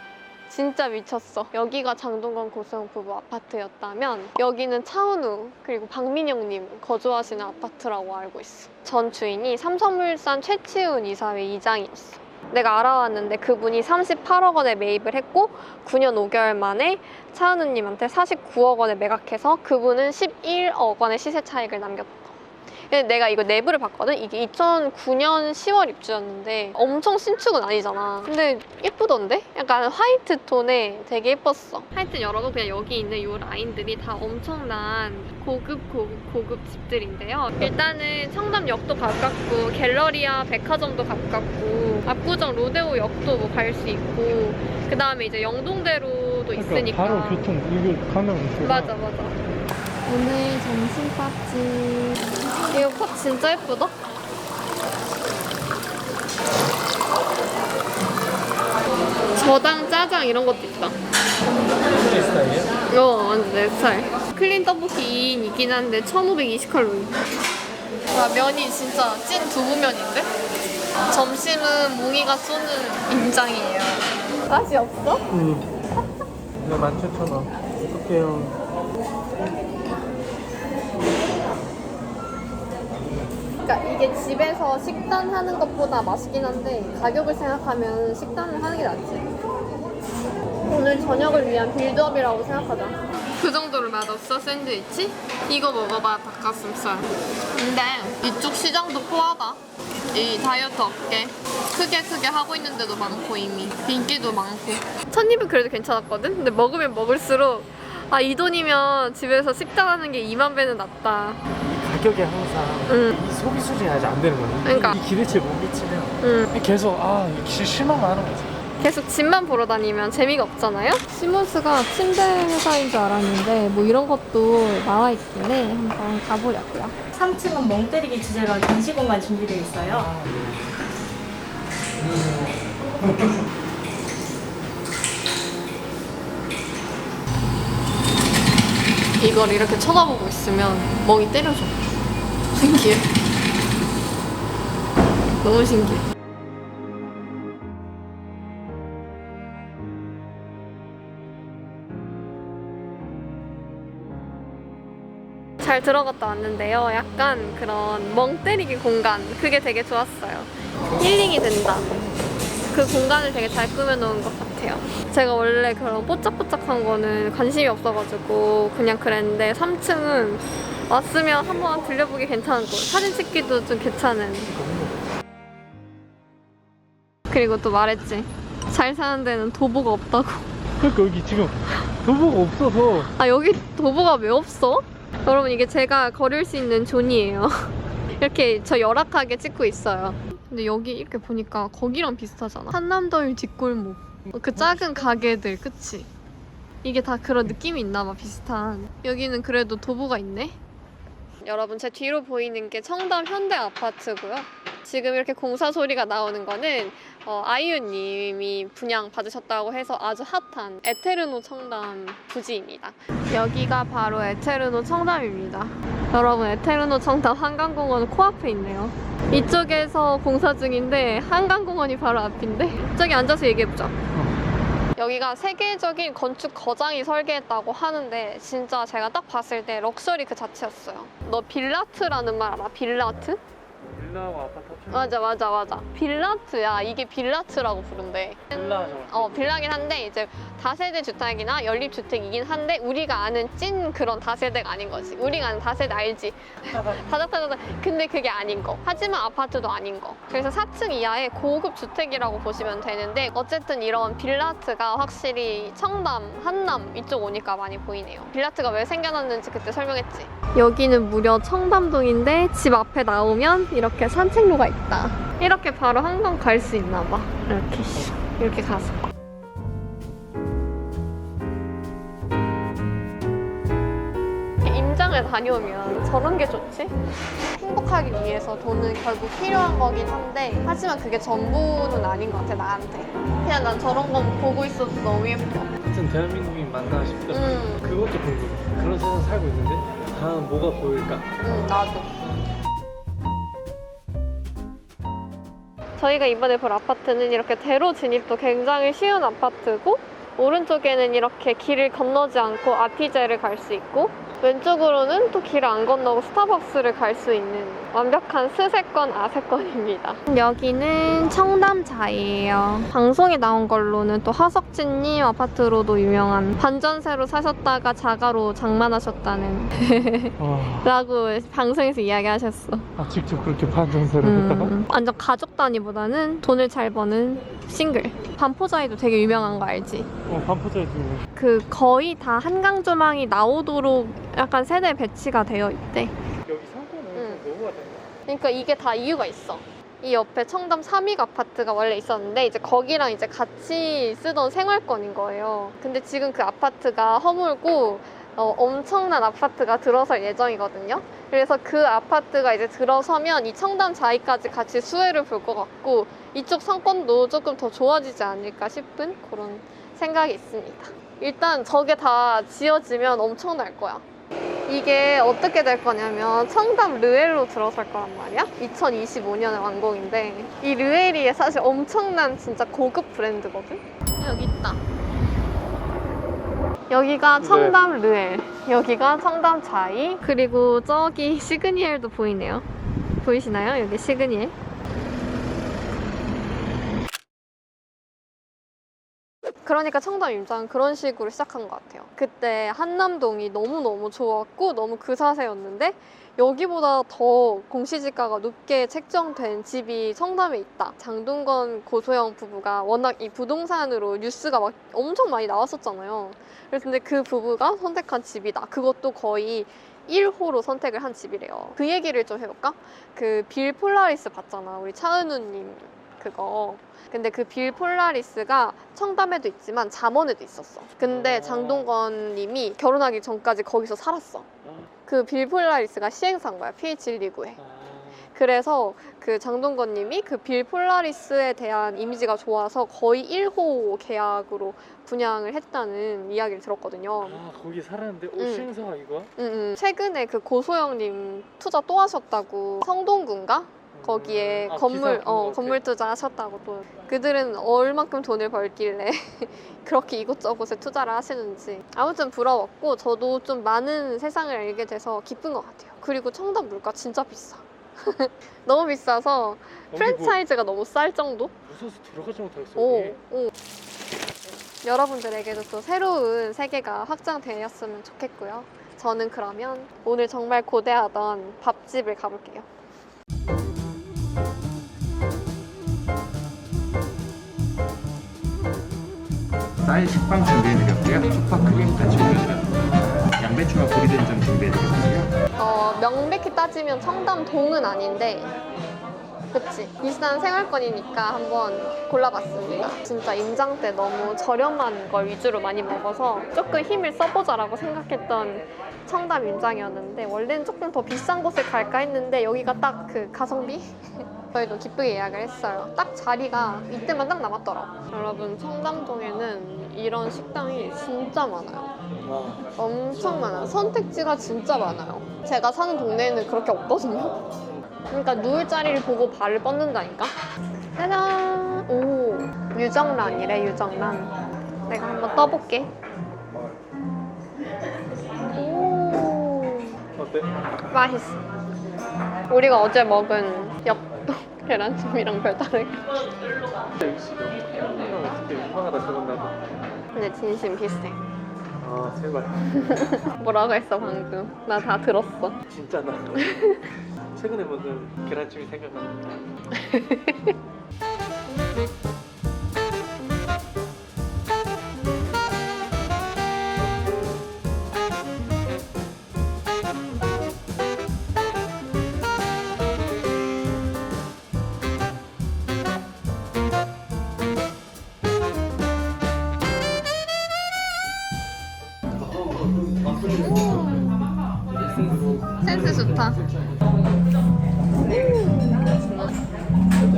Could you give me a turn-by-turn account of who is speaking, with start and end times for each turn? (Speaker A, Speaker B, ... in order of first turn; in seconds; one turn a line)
Speaker A: 0.5-47.5
Speaker B: 46.5-48.9
Speaker A: 48.6-49.4
Speaker A: 50.0-53.9
Speaker A: 59.3-61.0
Speaker B: 61.9-62.7
Speaker A: 62.9-67.3
Speaker A: 68.1-70.3
Speaker A: 71.1-75.2
Speaker B: 75.3-75.7
Speaker B: 76.6-78.6
Speaker A: 83.6-89.3
Speaker A: 90.7-99.6
Speaker A: 100.1-111.4
Speaker B: 111.6-118.6
Speaker A: 112.9-113.2
Speaker A: 114.6-115.0
Speaker A: 116.2-116.5
Speaker A: 118.8-126.9
Speaker C: 127.1-130.1
Speaker A: 139.2-141.8
Speaker A: 142.5-143.1
Speaker A: 145.4-146.0
Speaker A: 155.6-161.9
Speaker A: 162.7-174.5
Speaker B: 174.5-175.0
Speaker A: 177.3-180.5
Speaker B: 180.8-183.1
Speaker A: 183.0-196.1
Speaker B: 194.6-195.0
Speaker A: 196.8-200.6
Speaker A: 201.4-223.9
Speaker A: 224.9-233.4
Speaker B: 233.9-235.3
Speaker A: 234.9-269.1
Speaker B: 238.5-239.6
Speaker B: 246.7-247.0
Speaker A: 274.6-276.9
Speaker A: 277.6-285.7
Speaker B: 285.8-291.3
Speaker A: 287.3-287.8
Speaker A: 291.4-292.1
Speaker A: 296.0-322.9
Speaker B: 320.4-320.9
Speaker B: 323.0-324.7
Speaker A: 324.2-330.1
Speaker B: 330.2-331.3
Speaker A: 331.3-336.1
Speaker B: 336.4-338.1
Speaker A: 337.1-337.4
Speaker A: 338.3-364.0
Speaker A: 364.7-374.8
Speaker A: 376.9-382.6
Speaker B: 377.4-377.8
Speaker A: 383.2-384.5
Speaker A: 389.6-424.5
Speaker B: 421.0-421.9
Speaker B: 424.6-424.9
Speaker A: 425.1-427.6
Speaker B: 427.6-428.3
Speaker A: 428.3-437.4
Speaker B: 437.2-439.3
Speaker A: 438.4-438.7
Speaker A: 439.4-461.5
Speaker B: 443.9-445.8
Speaker B: 459.9-460.4
Speaker B: 461.6-463.2
Speaker A: 462.8-463.5
Speaker A: 464.8-472.7
Speaker D: 479.8-485.3
Speaker A: 485.6-488.5
Speaker A: 489.5-511.9
Speaker B: 512.2-512.7
Speaker A: 512.8-517.4
Speaker A: 518.1-520.3
Speaker A: 521.0-525.9
Speaker A: 528.5-530.0
Speaker B: 530.1-530.5
Speaker A: 530.9-531.4
Speaker A: 532.5-536.3
Speaker B: 537.0-539.6
Speaker A: 540.1-541.2
Speaker B: 541.8-542.7
Speaker A: 542.7-545.6
Speaker B: 545.7-546.8
Speaker A: 546.3-546.8
Speaker B: 547.3-549.5
Speaker A: 549.7-550.5
Speaker A: 573.3-574.2
Speaker A: 575.6-576.4
Speaker A: 578.0-579.4